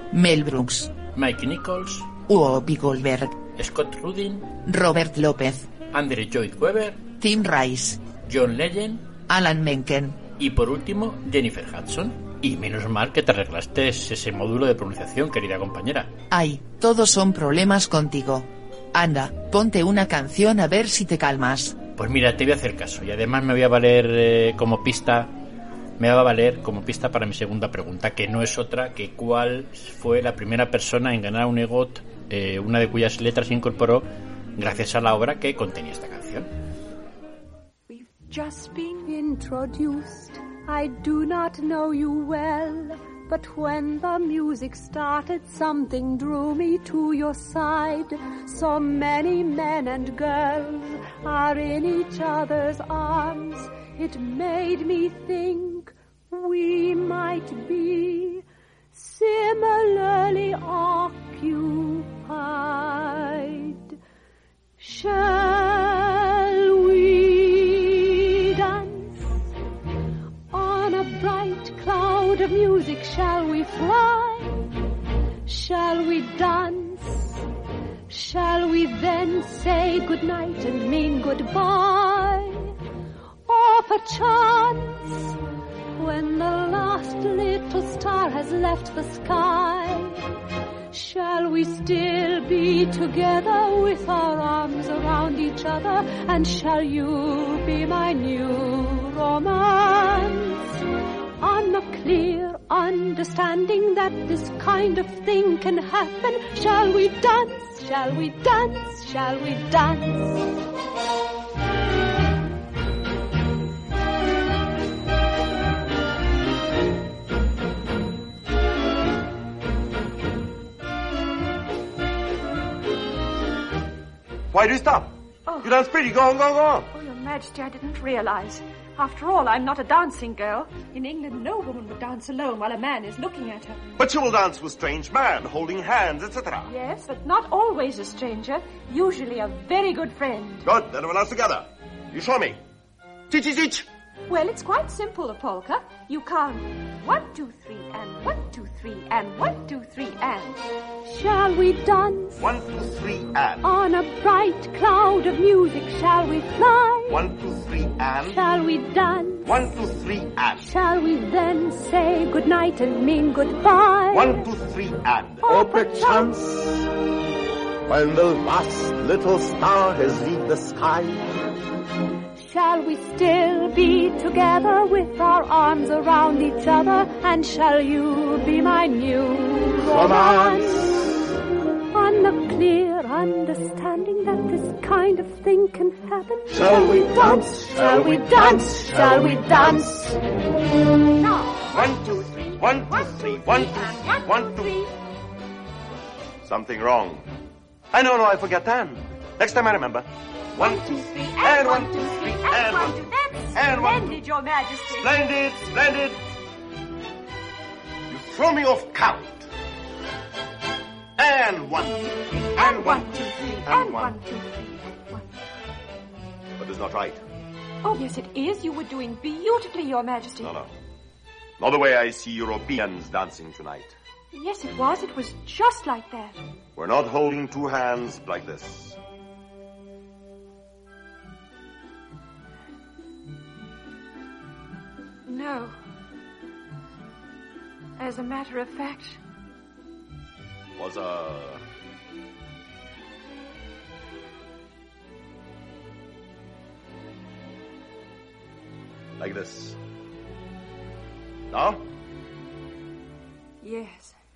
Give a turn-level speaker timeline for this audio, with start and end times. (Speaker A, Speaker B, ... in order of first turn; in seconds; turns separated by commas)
Speaker A: 0.1-0.9, Speaker B: 1.1-2.1, Speaker A: 2.3-3.4, Speaker B: 3.6-4.5, Speaker A: 4.7-5.7, Speaker B: 5.9-7.0, Speaker A: 7.2-8.0, Speaker B: 8.2-9.1, Speaker A: 9.3-10.2, Speaker B: 10.4-16.1, Speaker A: 16.3-21.8, Speaker B: 22.0-25.4, Speaker B: 26.0-36.5, Speaker C: 37.9-39.0, Speaker D: 39.0-58.4, Speaker D: 58.9-64.0, Speaker D: 64.8-69.4, Speaker D: 70.5-74.7, Speaker D: 75.5-77.4, Speaker D: 78.1-82.7, Speaker D: 83.5-85.3, Speaker D: 86.0-90.2, Speaker D: 90.9-100.8, Speaker D: 101.4-110.4, Speaker E: 124.5-125.1, Speaker C: 125.5-125.7, Speaker E: 125.6-126.9, Speaker C: 126.9-133.8, Speaker E: 134.0-136.7, Speaker C: 136.7-140.7, Speaker E: 140.7-142.6, Speaker E: 143.3-143.9, Speaker C: 144.3-150.7, Speaker D: 151.1-152.3, Speaker E: 152.4-153.7, Speaker D: 153.6-157.2, Speaker E: 157.1-158.4, Speaker D: 158.2-159.7, Speaker E: 159.4-160.7, Speaker D: 160.6-164.4, Speaker E: 164.1-166.9, Speaker D: 165.4-166.3, Speaker E: 167.9-171.3, Speaker D: 172.4-181.0, Speaker E: 179.7-181.2, Speaker D: 181.9-190.1, Speaker E: 186.5-190.1, Speaker C: 191.2-191.5, Speaker E: 191.7-194.8, Speaker C: 192.4-194.9, Speaker E: 196.4-197.3, Speaker E: 197.9-204.2, Speaker C: 200.6-205.3, Speaker E: 205.0-206.2, Speaker E: 208.1-209.5, Speaker E: 211.2-214.2, Speaker C: 212.3-215.2, Speaker E: 216.6-217.2, Speaker C: 217.8-220.5, Speaker E: 220.4-220.7, Speaker E: 221.6-223.9, Speaker C: 224.3-226.4, Speaker E: 226.8-229.0, Speaker C: 235.3-235.8, Speaker C: 238.0-239.2, Speaker E: 240.8-241.6, Speaker E: 249.2-249.8, Speaker E: 251.5-251.8, Speaker C: 253.6-254.2